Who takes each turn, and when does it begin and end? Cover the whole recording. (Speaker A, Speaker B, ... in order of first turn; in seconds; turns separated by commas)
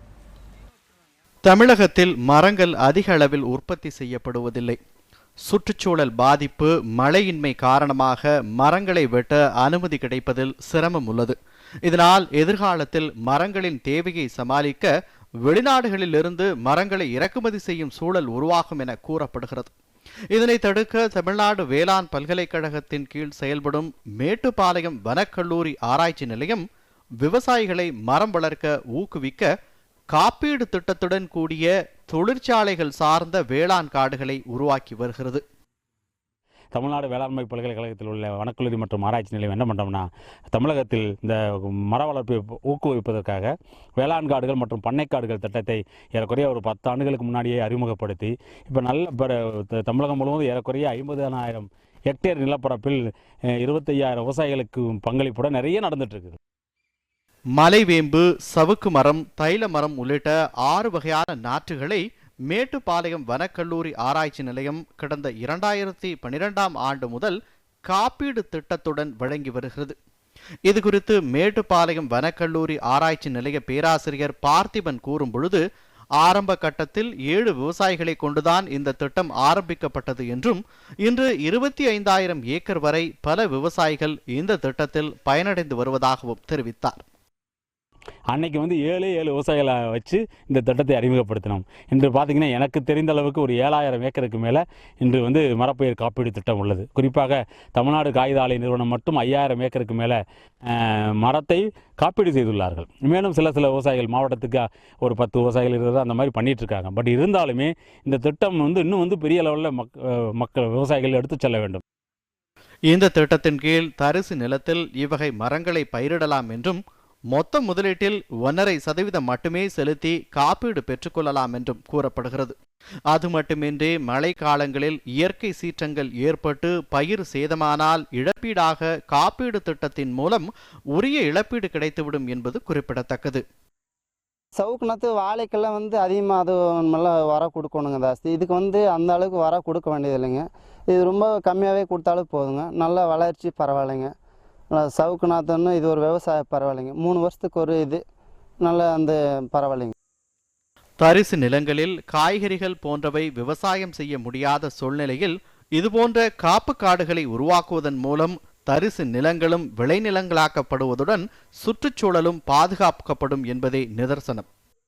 Speaker A: 1.4-4.8, Speaker A: 5.5-14.9, Speaker A: 15.4-19.7, Speaker A: 20.3-26.6, Speaker A: 27.2-29.5, Speaker A: 30.1-35.4, Speaker B: 36.7-53.0, Speaker B: 53.6-56.4, Speaker A: 57.6-67.4, Speaker A: 67.9-70.0, Speaker A: 70.7-75.6, Speaker A: 76.2-87.0, Speaker B: 88.3-100.2, Speaker B: 100.7-111.8, Speaker A: 112.9-116.8, Speaker A: 117.3-122.5, Speaker A: 123.1-133.4, Speaker C: 134.6-144.1, Speaker C: 144.7-148.0, Speaker C: 148.6-149.9, Speaker A: 151.0-164.5